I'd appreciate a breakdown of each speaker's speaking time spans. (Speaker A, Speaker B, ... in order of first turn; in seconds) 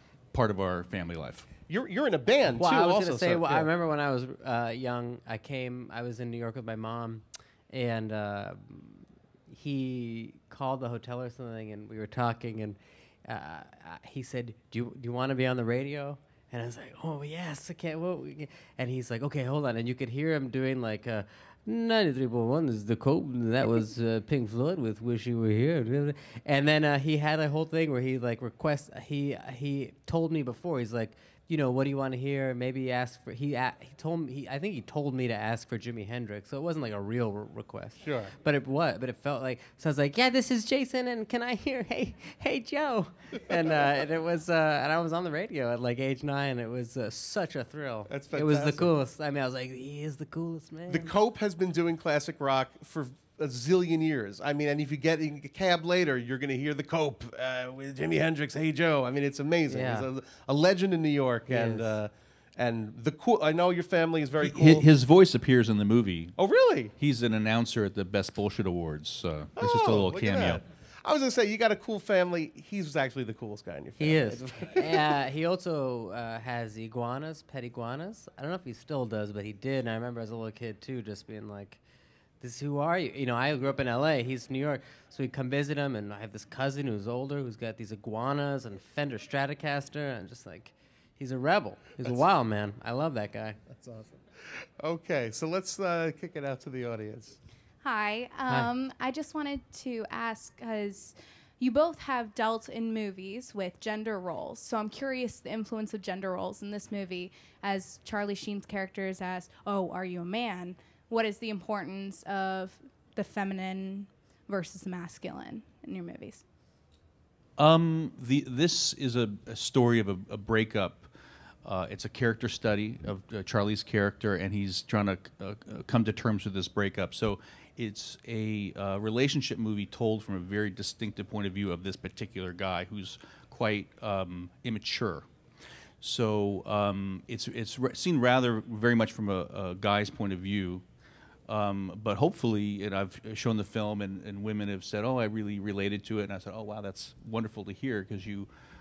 Speaker A: 0.3-1.5, 64.4-66.4, 67.0-70.6, 117.6-121.1, 121.6-135.2, 136.0-140.8, 141.5-148.5
Speaker B: 1.7-3.7, 38.0-38.3, 48.1-48.9, 50.9-64.9, 66.4-66.9, 69.6-75.2, 93.8-97.4
Speaker C: 2.5-51.1, 59.7-60.1, 61.5-61.9, 74.0-81.8, 82.4-93.6
Speaker D: 97.8-116.4